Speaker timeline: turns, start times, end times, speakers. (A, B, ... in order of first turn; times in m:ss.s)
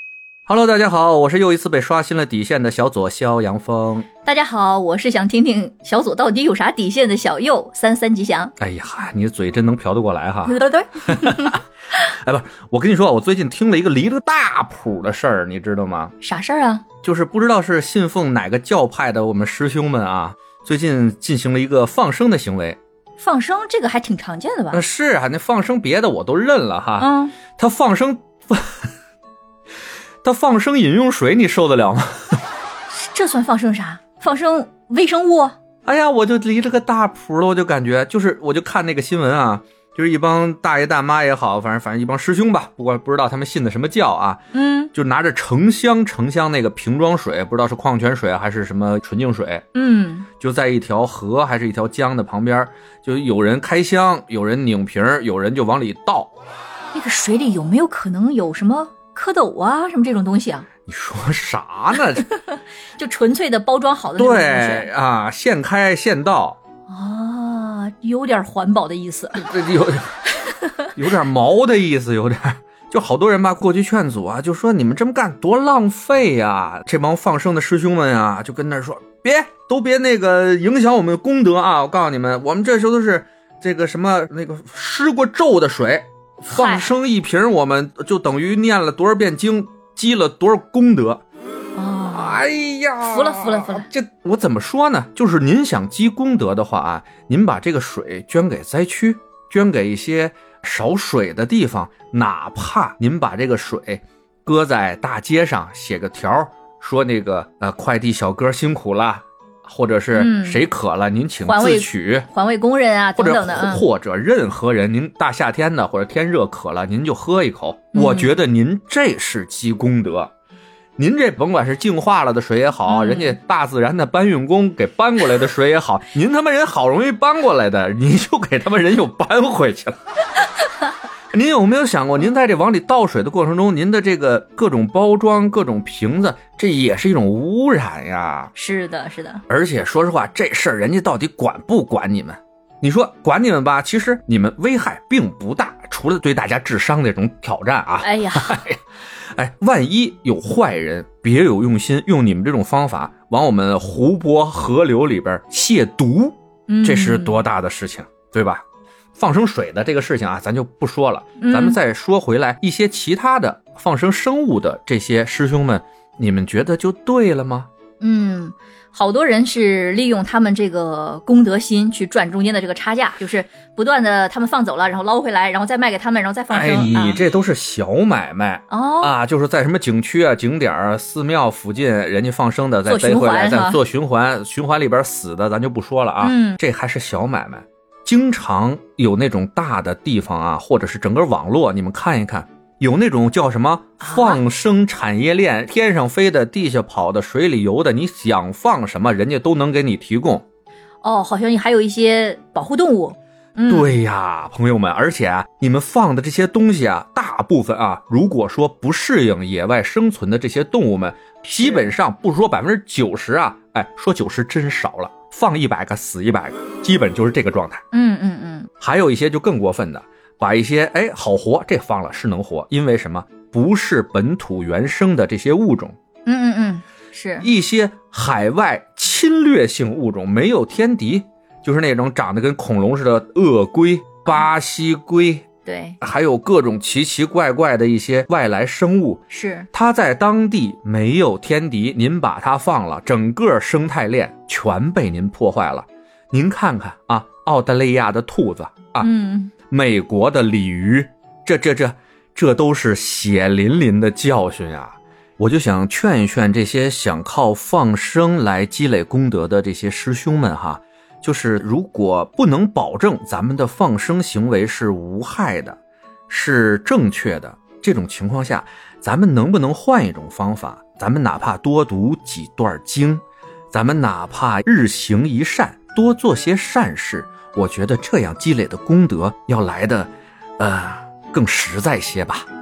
0:00.5-0:04.1 A
0:04.2-0:08.5 B
0:08.6-0:16.1 A
0:10.4-0:11.6 B
0:16.2-0:16.9 B
0:17.0-0:22.8 A
0:23.2-0:24.8 B
0:24.7-0:28.9 A
0:27.0-0:27.4 B
0:30.2-0:32.4 A
0:32.9-0:35.6 B
0:35.8-0:44.4 A
0:44.5-0:44.9 B
0:44.9-0:49.6 A
0:49.7-0:50.3 B
0:50.4-0:56.3 A
0:56.9-1:00.7 B
1:00.9-1:02.3 A
1:02.1-1:04.9 B
1:04.2-1:06.6 A
1:06.9-1:09.5 B
1:09.3-1:10.2 A
1:10.4-1:10.9 B
1:10.9-1:31.2 A
1:26.5-1:26.9 B
1:31.8-1:32.4 B
1:32.1-1:52.3 A
1:33.0-1:33.9 B
1:50.1-1:50.7 B
1:51.4-1:53.9 B
1:53.2-2:00.3 A
1:57.9-1:58.4 B
2:01.0-2:10.0 A
2:02.8-2:03.4 B
2:11.3-2:18.5 A
2:18.5-2:19.4 B
2:19.5-2:28.8 A
2:28.0-2:28.6 B
2:29.3-2:38.6 A
2:36.7-2:37.4 B
2:39.1-2:47.7 A
2:41.4-2:41.8 B
2:48.0-2:57.3 B
2:56.5-3:20.4 A
2:58.7-2:59.2 B
3:02.8-3:03.8 B
3:06.2-3:06.6 B
3:14.0-3:14.4 B
3:21.0-3:24.0 B
3:23.7-3:37.8 A
3:31.6-3:31.9 B
3:37.9-3:38.7 B
3:38.8-3:46.0 A
3:46.2-3:47.5 B
3:47.4-3:55.4 A
3:55.6-3:56.0 B
3:56.0-3:59.2 A
3:59.3-3:59.7 B
3:59.7-4:09.1 A
4:09.0-4:09.5 B
4:09.7-4:25.8 A
4:26.3-4:42.4 A